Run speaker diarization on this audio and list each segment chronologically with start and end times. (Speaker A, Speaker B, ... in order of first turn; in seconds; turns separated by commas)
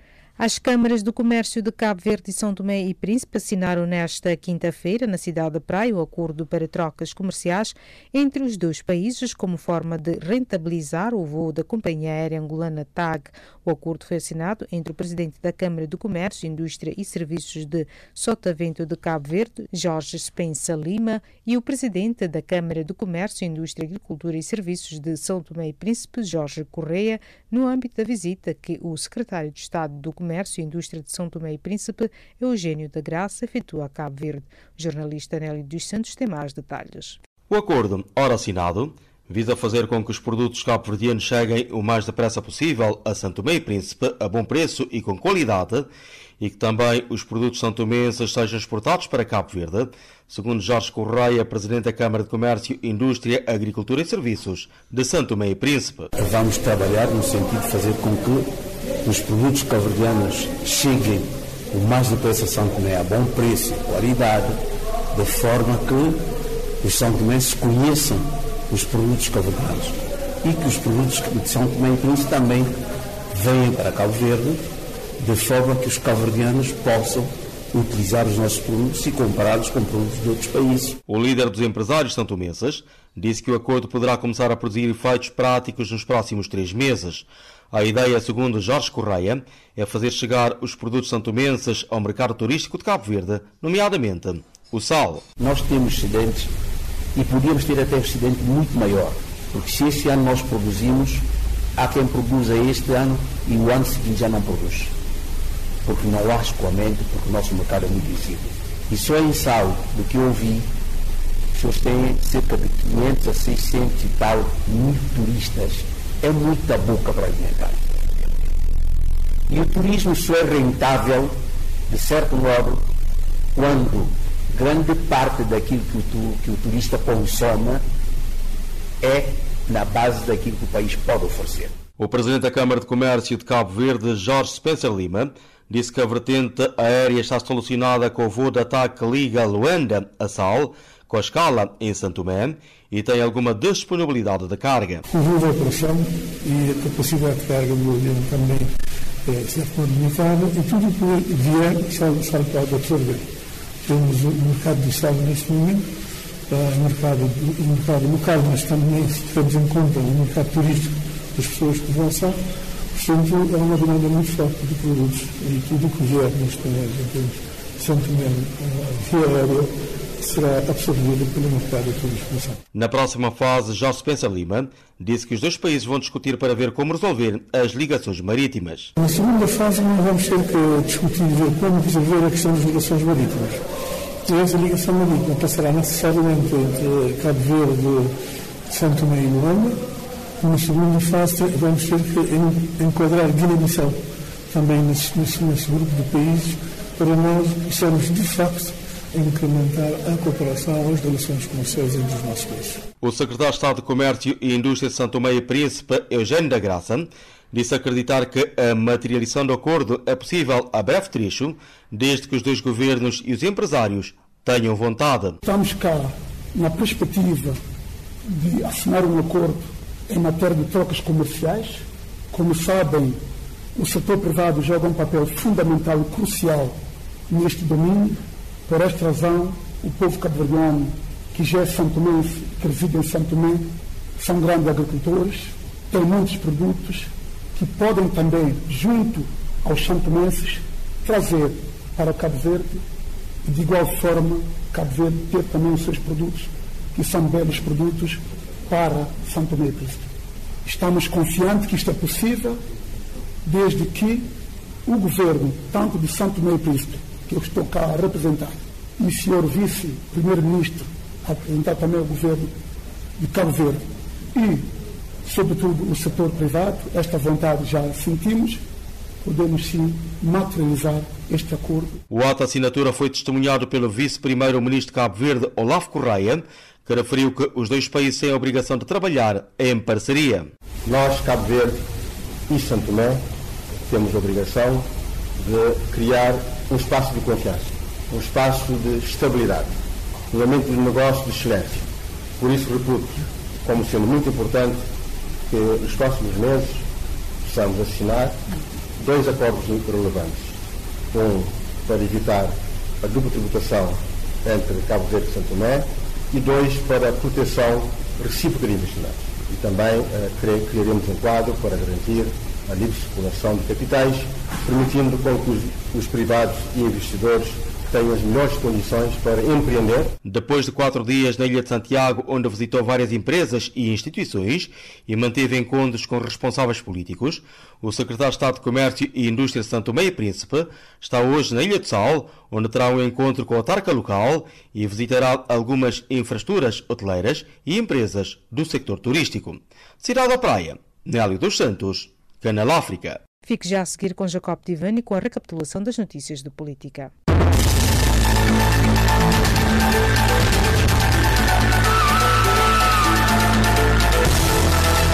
Speaker A: 0.4-37.2, Speaker B: 37.5-45.9, Speaker B: 46.4-56.1, Speaker C: 56.1-58.5, Speaker C: 59.0-64.6, Speaker C: 65.1-66.2, Speaker C: 66.8-72.8, Speaker C: 73.3-74.7, Speaker C: 75.2-81.0, Speaker B: 81.1-95.2, Speaker C: 95.4-96.5, Speaker C: 97.1-101.2, Speaker C: 101.8-104.9, Speaker C: 105.8-110.7, Speaker C: 111.5-118.2, Speaker C: 119.5-121.3, Speaker C: 121.9-122.9, Speaker C: 123.5-127.8, Speaker C: 129.0-131.8, Speaker B: 132.0-145.0, Speaker D: 145.1-148.7, Speaker D: 149.2-153.3, Speaker D: 153.8-155.9, Speaker D: 156.5-162.4, Speaker D: 162.9-172.6, Speaker B: 172.7-178.9, Speaker D: 178.9-183.6, Speaker D: 184.2-188.2, Speaker D: 188.7-189.8, Speaker D: 190.4-202.8, Speaker B: 203.0-215.4, Speaker D: 215.4-217.6, Speaker D: 218.2-223.2, Speaker D: 223.7-226.8, Speaker D: 227.3-242.8, Speaker D: 243.4-250.1, Speaker D: 250.6-252.6, Speaker D: 253.4-254.3, Speaker D: 254.8-262.5, Speaker D: 263.2-264.7, Speaker D: 265.2-268.6, Speaker D: 269.2-272.0, Speaker B: 272.1-280.5, Speaker E: 280.8-281.8, Speaker E: 282.5-283.2, Speaker E: 283.9-284.9, Speaker E: 285.4-289.8, Speaker E: 290.3-291.8, Speaker E: 292.4-294.8, Speaker E: 295.5-296.8, Speaker E: 297.4-298.4, Speaker E: 299.0-300.6, Speaker E: 301.1-320.1, Speaker B: 320.2-343.2, Speaker A: 343.5-347.1